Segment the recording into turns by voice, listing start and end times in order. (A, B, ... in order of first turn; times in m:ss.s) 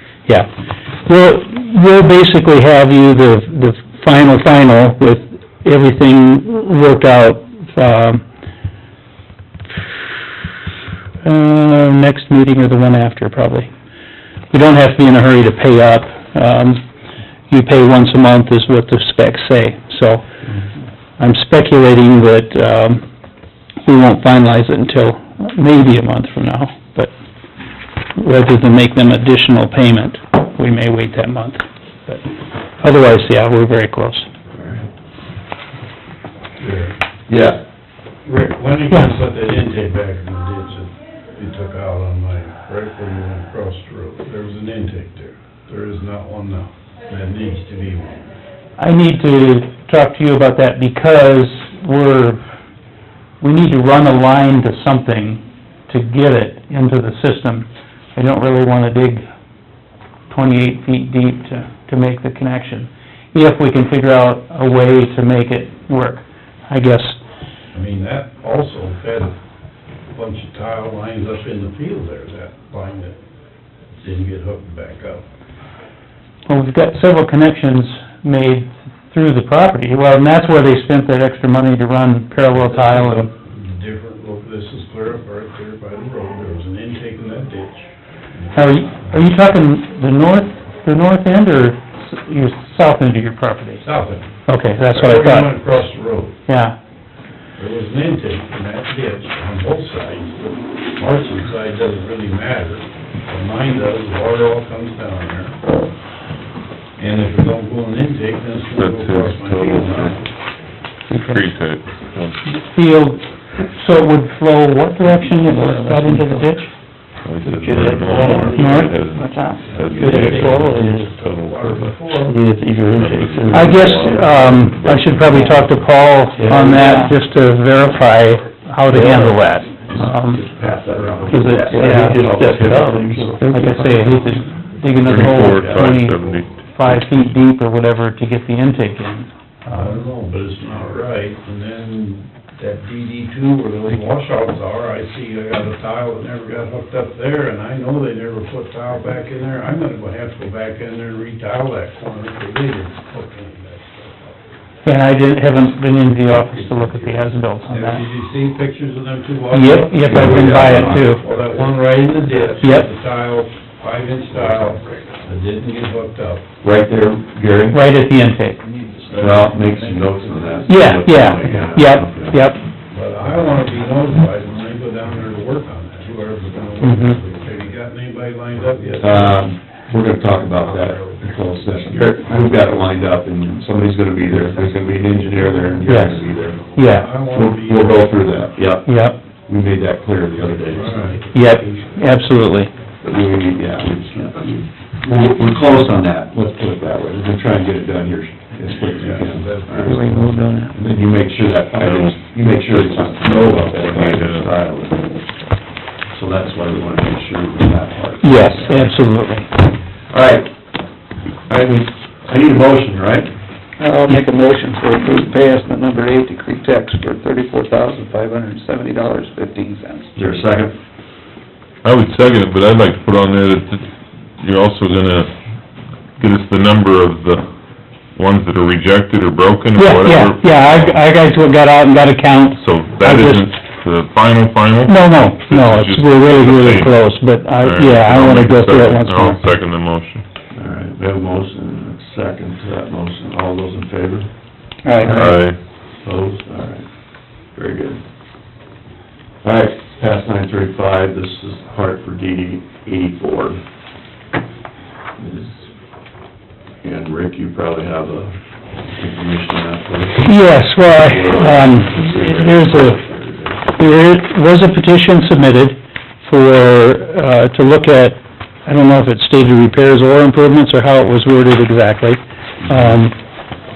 0:01.1-0:08.2 A
0:11.2-0:13.7 A
0:14.5-0:16.8 A
0:17.5-0:20.3 A
0:21.2-0:23.0 A
0:23.8-0:27.1 A
0:28.2-0:32.2 A
0:32.8-0:34.3 A
0:34.6-0:34.8 B
0:36.6-0:37.0 C
0:37.3-0:37.6 B
0:38.2-0:48.2 C
0:48.8-0:52.4 A
0:53.4-0:59.3 A
1:00.3-1:07.2 A
1:07.7-1:09.4 C
1:10.1-1:13.2 C
1:14.0-1:15.2 C
1:16.5-1:23.3 A
1:22.5-1:29.2 C
1:28.5-1:33.8 A
1:33.8-1:34.3 C
1:34.5-1:35.5 A
1:34.9-1:36.4 C
1:36.5-1:36.8 A
1:37.6-1:45.6 C
1:47.0-1:50.3 C
1:48.7-1:50.2 D
1:51.1-1:52.4 D
1:52.5-1:56.7 A
1:55.3-1:56.6 E
1:57.2-2:02.1 D
1:57.4-2:01.2 E
1:58.0-1:58.7 C
1:58.6-1:59.0 A
1:59.7-2:02.4 C
2:02.2-2:04.4 E
2:02.9-2:06.0 D
2:03.5-2:10.4 A
2:05.3-2:05.7 E
2:06.4-2:07.2 E
2:06.7-2:07.0 B
2:08.9-2:09.4 E
2:10.0-2:13.4 B
2:10.4-2:11.9 C
2:11.3-2:14.5 E
2:11.3-2:12.2 A
2:13.4-2:20.0 A
2:15.0-2:17.4 D
2:15.1-2:16.0 B
2:19.7-2:34.4 C
2:34.8-2:38.0 A
2:36.5-2:37.3 B
2:37.7-2:46.4 C
2:39.5-2:41.2 A
2:40.1-2:41.6 B
2:42.6-2:42.9 A
2:46.6-2:47.8 B
2:47.7-2:48.6 A
2:49.0-2:51.1 C
2:49.2-2:52.4 B
2:50.7-2:52.6 A
2:52.9-2:59.5 C
2:56.8-2:57.2 A
2:59.0-3:06.6 B
3:00.2-3:02.7 C
3:05.0-3:05.9 C
3:05.9-3:06.2 A
3:06.6-3:08.2 C
3:06.8-3:07.1 A
3:07.3-3:08.9 B
3:08.8-3:09.2 A
3:09.5-3:11.1 B
3:10.7-3:12.0 C
3:11.3-3:12.7 A
3:13.0-3:20.1 B
3:19.0-3:20.5 C
3:19.8-3:20.7 A
3:20.7-3:25.1 B
3:21.8-3:22.2 D
3:23.2-3:24.6 D
3:26.1-3:29.0 B
3:28.2-3:29.5 A
3:30.1-3:30.6 B
3:31.4-3:33.3 B
3:33.8-3:40.1 E
3:40.2-3:40.8 B
3:41.8-3:43.9 D
3:44.4-3:45.3 D
3:46.2-3:47.5 D
3:48.2-3:51.0 D
3:49.8-3:53.5 A
3:52.6-3:57.0 D
3:54.9-3:59.5 A
3:57.6-4:00.2 D
4:00.5-4:04.3 B
4:04.8-4:05.2 A
4:04.9-4:06.9 B
4:05.1-4:05.6 D
4:07.5-4:08.0 B
4:09.4-4:13.6 B
4:15.2-4:15.7 B
4:16.8-4:18.4 B
4:18.9-4:23.7 B
4:20.2-4:23.0 A
4:23.8-4:33.2 A